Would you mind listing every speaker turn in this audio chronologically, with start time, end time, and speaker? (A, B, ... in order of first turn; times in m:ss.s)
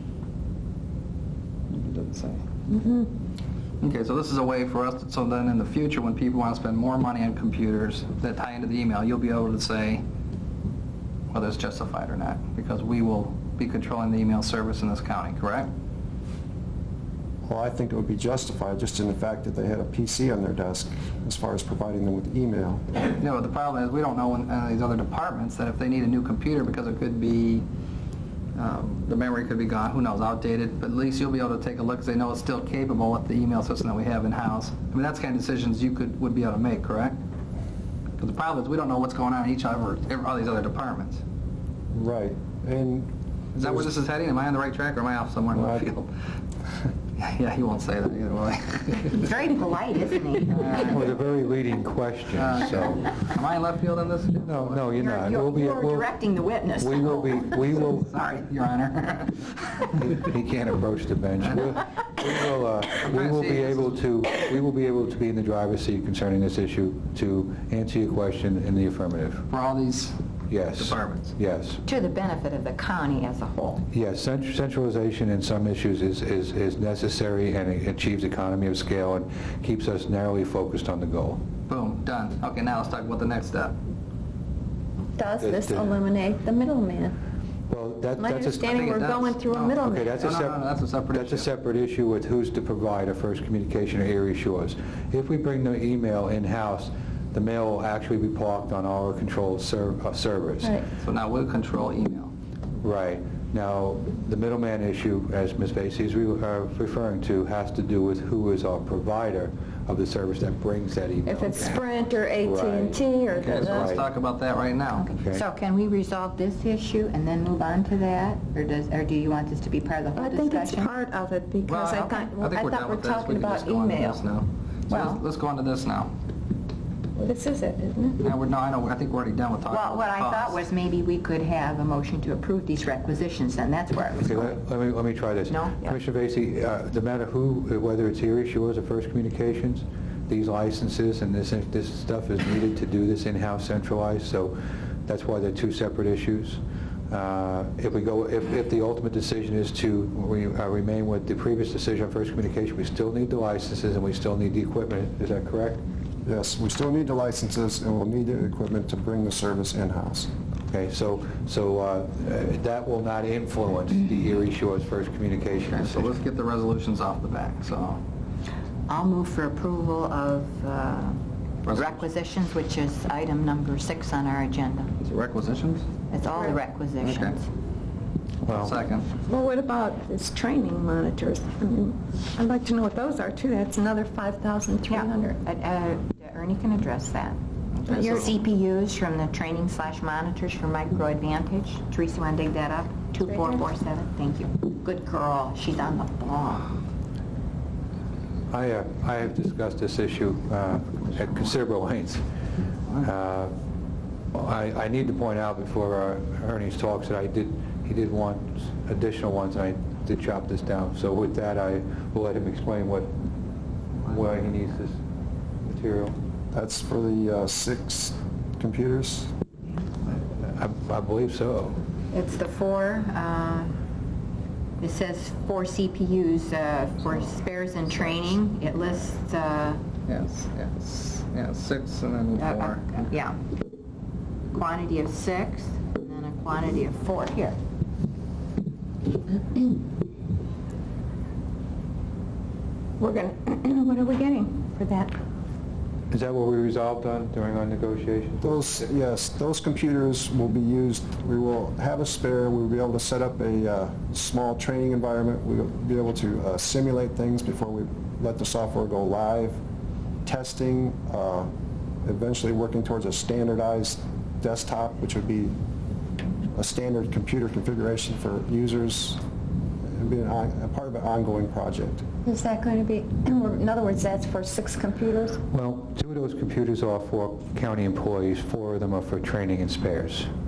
0:01.7-0:02.4 A
0:02.7-0:03.1 B
0:03.8-0:10.0 A
0:11.3-0:15.7 A
0:17.4-0:22.8 C
0:23.1-0:27.6 A
0:28.5-0:37.2 A
0:38.2-0:41.2 A
0:41.9-0:43.9 C
0:43.5-0:46.1 A
0:45.5-0:45.9 C
0:47.2-0:49.2 A
0:49.1-0:51.2 D
0:50.5-0:51.0 A
0:50.8-0:53.0 E
0:52.3-0:54.8 A
0:54.4-0:56.1 E
0:54.9-0:57.9 D
0:56.7-0:58.1 E
0:57.6-1:00.0 A
1:00.0-1:09.4 E
1:03.0-1:03.9 A
1:09.5-1:10.2 A
1:10.5-1:11.8 E
1:10.7-1:11.3 A
1:11.8-1:13.8 D
1:13.9-1:21.4 E
1:21.7-1:23.8 A
1:25.2-1:27.1 B
1:25.4-1:26.0 E
1:27.7-1:28.7 E
1:28.2-1:30.1 B
1:28.6-1:31.5 A
1:29.8-1:40.8 E
1:41.0-1:42.3 A
1:42.8-1:51.8 E
1:51.2-1:53.9 B
1:52.4-1:54.1 E
1:53.3-1:55.1 A
1:55.0-2:00.9 D
1:55.1-1:55.4 E
2:00.1-2:04.2 B
2:01.6-2:06.1 A
2:04.9-2:05.2 D
2:07.2-2:08.2 B
2:08.2-2:10.6 A
2:09.7-2:14.6 D
2:14.2-2:35.8 E
2:15.5-2:15.9 D
2:36.2-2:40.3 C
2:40.7-2:46.1 E
2:45.7-2:48.0 A
2:48.9-2:54.9 D
2:51.6-2:52.0 A
2:55.0-2:55.9 A
2:56.1-2:57.5 D
2:56.3-2:56.6 B
2:57.0-2:57.4 A
2:58.4-2:58.8 E
2:58.5-2:59.1 A
2:59.2-3:05.4 B
3:04.9-3:16.7 D
3:07.8-3:08.2 A
3:07.9-3:08.3 B
3:13.3-3:13.6 B
3:18.5-3:22.2 E
3:23.0-3:23.5 E
3:24.3-3:33.1 E
3:34.0-3:35.0 E
3:35.6-3:36.2 E
3:36.5-3:39.3 C
3:40.1-3:41.8 E
3:42.1-3:43.8 D
3:44.8-3:49.8 D
3:50.1-3:53.1 A
3:52.4-3:53.4 D
3:54.5-3:57.6 D
4:03.0-4:05.1 B
4:06.1-4:08.6 E
4:08.4-4:19.6 C
4:20.2-4:21.5 C
4:22.0-4:25.6 C
4:26.5-4:29.2 C
4:29.8-4:32.0 C
4:32.2-4:35.4 B
4:35.5-4:40.3 E